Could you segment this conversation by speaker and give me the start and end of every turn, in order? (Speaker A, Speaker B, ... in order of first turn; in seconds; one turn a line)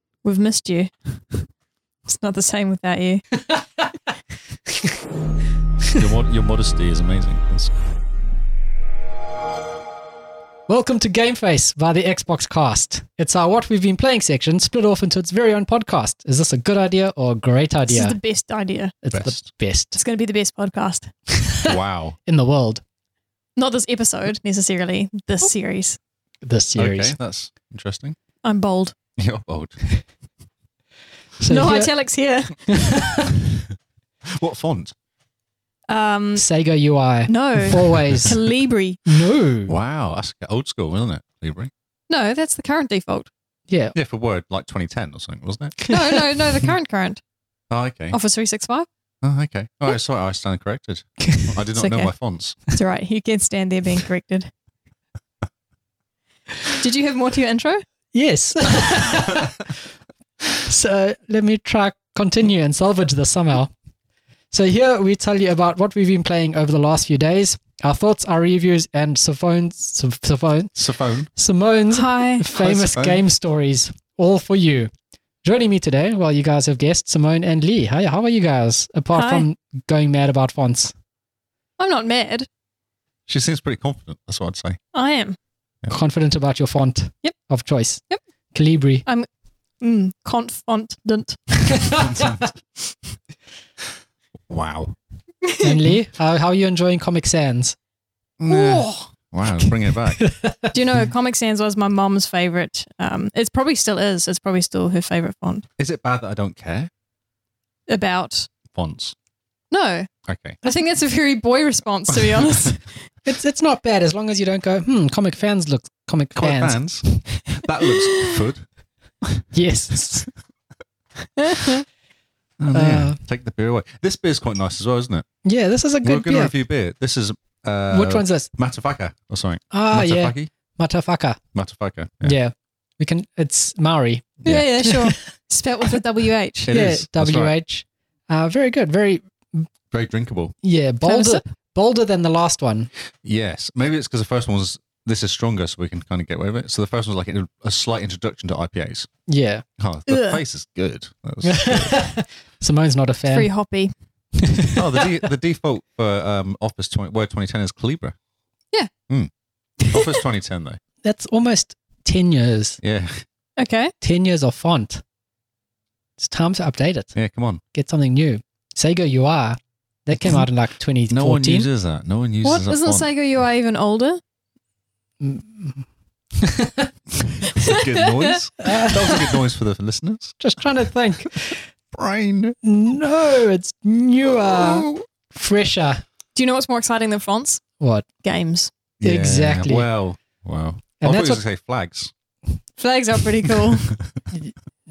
Speaker A: 0.2-1.4
Speaker A: 2.0-3.2
Speaker B: 6.0-7.7
Speaker C: 10.7-18.2
Speaker A: 17.9-18.9
Speaker C: 19.0-20.0
Speaker B: 19.1-19.4
Speaker A: 19.9-21.1
Speaker C: 21.3-22.8
Speaker B: 21.7-22.2
Speaker A: 23.6-26.0
Speaker C: 26.4-27.1
Speaker B: 26.8-28.1
Speaker A: 28.4-28.9
Speaker B: 29.2-29.8
Speaker C: 31.4-31.9
Speaker A: 31.4-33.0
Speaker C: 32.7-33.4
Speaker B: 34.2-34.9
Speaker A: 35.9-36.4
Speaker C: 36.4-38.4
Speaker A: 37.3-39.3
Speaker C: 39.1-39.7
Speaker B: 39.7-41.7
Speaker A: 42.1-43.3
Speaker C: 43.7-43.9
Speaker B: 43.9-45.8
Speaker C: 45.9-46.1
Speaker A: 45.9-47.2
Speaker B: 47.7-48.1
Speaker A: 48.1-48.9
Speaker B: 49.2-52.6
Speaker C: 51.2-51.5
Speaker A: 51.8-52.1
Speaker A: 52.7-54.5
Speaker A: 56.7-57.8
Speaker C: 58.1-59.7
Speaker C: 60.5-63.7
Speaker C: 64.5-70.7
Speaker B: 70.8-71.3
Speaker C: 71.3-74.9
Speaker A: 71.9-72.5
Speaker B: 72.5-73.2
Speaker C: 75.4-80.9
Speaker A: 79.1-79.5
Speaker A: 81.8-82.5
Speaker B: 83.3-84.8
Speaker A: 84.9-85.4
Speaker C: 85.9-89.0
Speaker A: 89.8-92.1
Speaker C: 91.7-92.4
Speaker B: 92.0-92.5
Speaker B: 94.5-95.0
Speaker A: 95.4-95.8
Speaker C: 95.6-97.8
Speaker B: 98.4-100.2
Speaker C: 98.5-98.9
Speaker C: 99.6-100.7
Speaker A: 100.7-105.7
Speaker B: 105.8-106.9
Speaker A: 107.9-108.5
Speaker B: 108.7-109.1
Speaker A: 109.7-110.1
Speaker B: 110.3-110.6
Speaker A: 110.6-112.9
Speaker C: 113.2-117.6
Speaker B: 116.3-118.7
Speaker C: 119.5-120.3
Speaker A: 121.3-121.8
Speaker B: 122.6-125.2
Speaker C: 122.7-123.2
Speaker C: 125.4-126.5
Speaker B: 126.0-130.5
Speaker C: 127.9-128.5
Speaker C: 129.7-131.4
Speaker B: 131.5-132.4
Speaker C: 132.2-135.2
Speaker A: 134.4-136.7
Speaker B: 136.7-137.5
Speaker C: 136.7-139.7
Speaker B: 139.9-140.5
Speaker C: 140.6-142.9
Speaker A: 141.1-141.4
Speaker B: 143.2-149.1
Speaker C: 149.3-149.6
Speaker B: 149.8-152.0
Speaker A: 150.1-150.4
Speaker C: 151.4-153.5
Speaker A: 153.3-153.9
Speaker C: 154.4-155.2
Speaker B: 154.7-158.2
Speaker B: 159.9-160.8
Speaker A: 159.9-160.2
Speaker C: 161.0-162.8
Speaker B: 162.8-163.2
Speaker A: 163.6-163.9
Speaker C: 164.0-165.0
Speaker C: 166.2-167.1
Speaker B: 167.1-167.6
Speaker C: 167.7-171.7
Speaker B: 171.1-173.1
Speaker A: 172.4-174.2
Speaker C: 175.2-175.9
Speaker C: 176.4-176.9
Speaker A: 177.5-178.4
Speaker B: 177.5-180.4
Speaker C: 178.6-179.4
Speaker C: 180.4-181.6
Speaker B: 181.9-182.6
Speaker C: 182.6-186.0
Speaker B: 184.5-185.0
Speaker A: 186.3-187.6
Speaker C: 187.8-188.1
Speaker A: 188.2-188.7
Speaker B: 189.0-192.1
Speaker C: 189.0-189.8
Speaker C: 191.0-191.4
Speaker A: 192.8-193.9